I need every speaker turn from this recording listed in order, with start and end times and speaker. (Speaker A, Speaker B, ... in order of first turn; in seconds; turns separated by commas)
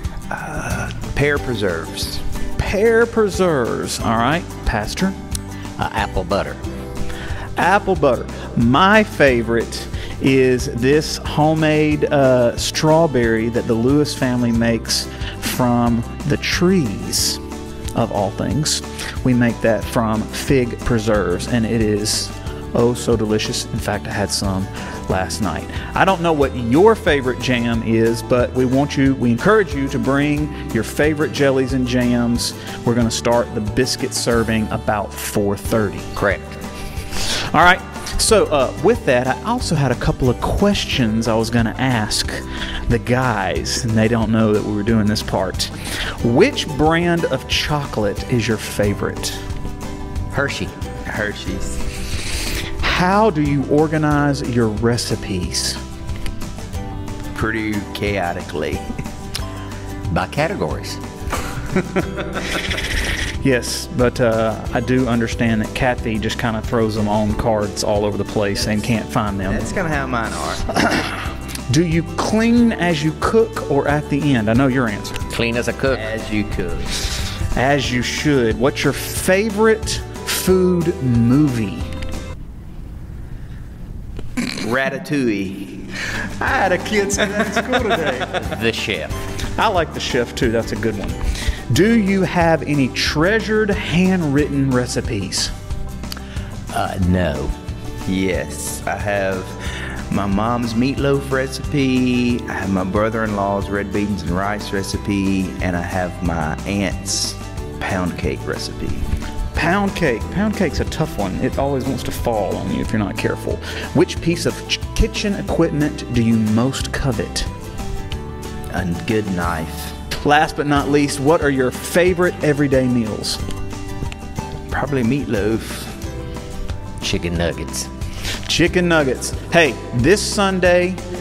Speaker A: 0.3-2.2, Speaker B: 2.6-5.2, Speaker C: 5.8-6.6, Speaker B: 7.6-17.4, Speaker B: 17.9-36.2, Speaker C: 36.2-36.5, Speaker B: 37.2-49.4, Speaker C: 50.3-50.7, Speaker A: 51.1-51.9, Speaker B: 52.8-55.8, Speaker A: 57.3-58.9, Speaker C: 60.1-61.0, Speaker B: 63.4-69.8, Speaker A: 69.5-70.8, Speaker B: 70.9-75.3, Speaker C: 75.3-76.1, Speaker A: 75.9-77.0, Speaker B: 77.5-81.9, Speaker A: 84.5-88.5, Speaker C: 88.4-89.1, Speaker B: 89.6-95.5, Speaker C: 96.7-97.5, Speaker A: 98.0-109.0, Speaker B: 109.5-117.5, Speaker A: 118.7-119.9, Speaker B: 120.2-123.4, Speaker A: 124.7-126.0, Speaker C: 127.0-127.9, Speaker B: 128.4-131.0